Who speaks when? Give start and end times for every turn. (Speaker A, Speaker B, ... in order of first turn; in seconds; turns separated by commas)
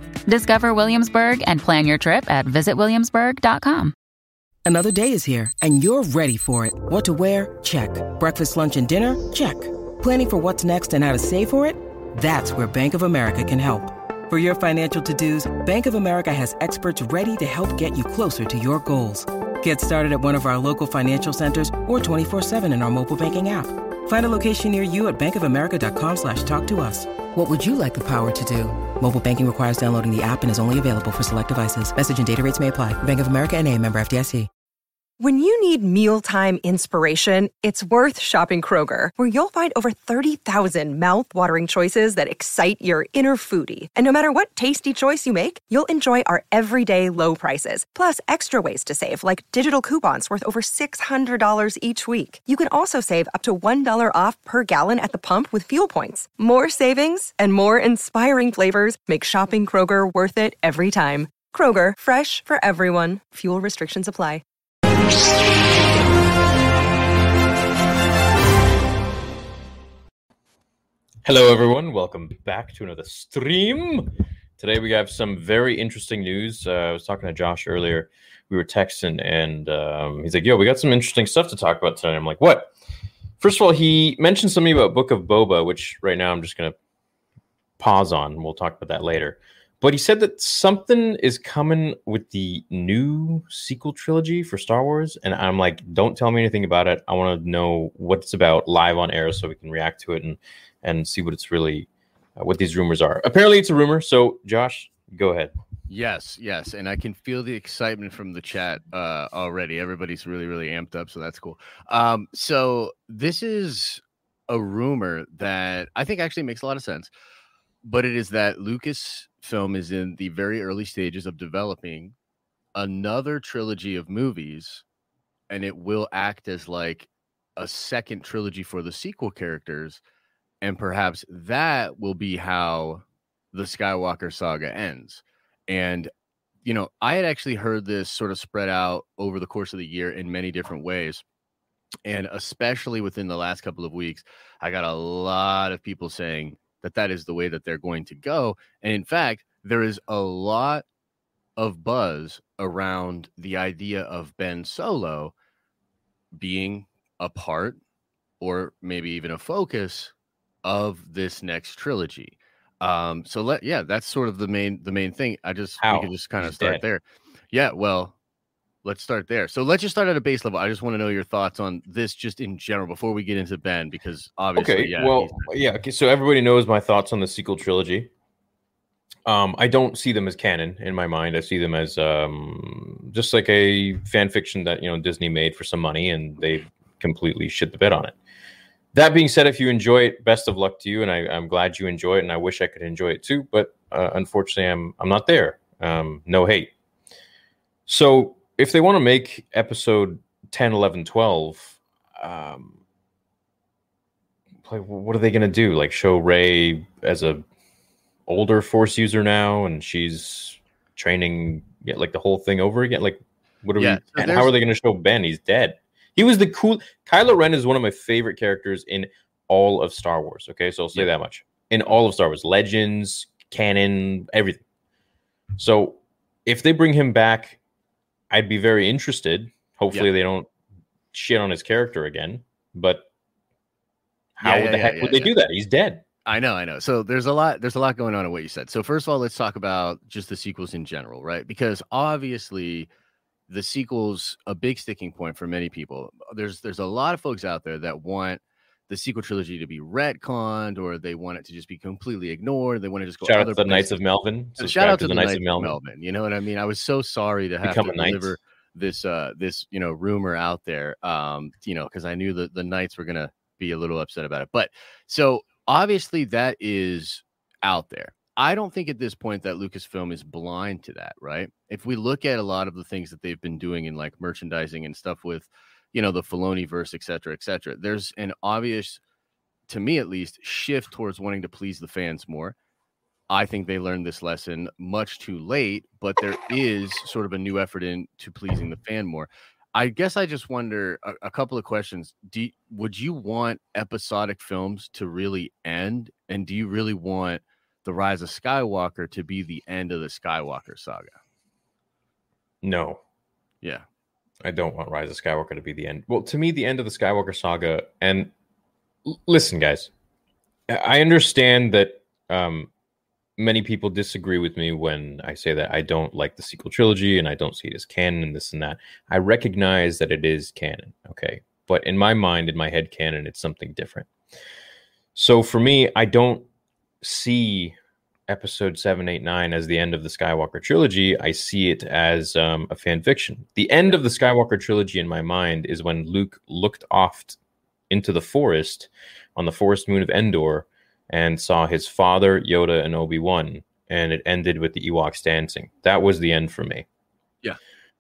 Speaker A: 0.3-3.9, Speaker B: 4.6-34.5, Speaker C: 35.2-64.4, Speaker D: 71.2-82.7, Speaker D: 83.4-86.8, Speaker D: 87.8-105.5, Speaker E: 105.9-117.1, Speaker E: 117.8-122.1, Speaker E: 122.7-124.8, Speaker E: 125.5-130.0, Speaker E: 130.6-136.1, Speaker E: 136.6-141.2, Speaker E: 142.0-150.8, Speaker E: 151.6-155.3, Speaker E: 156.3-157.8, Speaker E: 158.4-168.2, Speaker D: 165.8-166.8, Speaker E: 168.8-175.5, Speaker D: 174.6-178.1, Speaker D: 179.2-188.2, Speaker D: 188.9-196.7, Speaker D: 197.9-202.8, Speaker D: 204.6-207.4, Speaker D: 208.3-224.6, Speaker E: 213.8-214.5, Speaker D: 225.6-227.6, Speaker D: 228.3-230.5, Speaker D: 231.1-233.0, Speaker D: 234.3-236.0, Speaker E: 234.4-235.3, Speaker E: 236.2-242.9, Speaker E: 243.5-254.0, Speaker D: 253.2-255.8, Speaker E: 254.6-279.0, Speaker D: 257.6-258.4, Speaker E: 279.7-282.5, Speaker E: 283.3-301.2, Speaker D: 302.6-303.0, Speaker D: 304.4-308.3, Speaker D: 309.0-309.9, Speaker D: 310.7-312.7, Speaker D: 313.4-324.1, Speaker D: 325.1-326.5, Speaker D: 327.0-327.7, Speaker D: 328.3-337.4, Speaker D: 337.9-346.9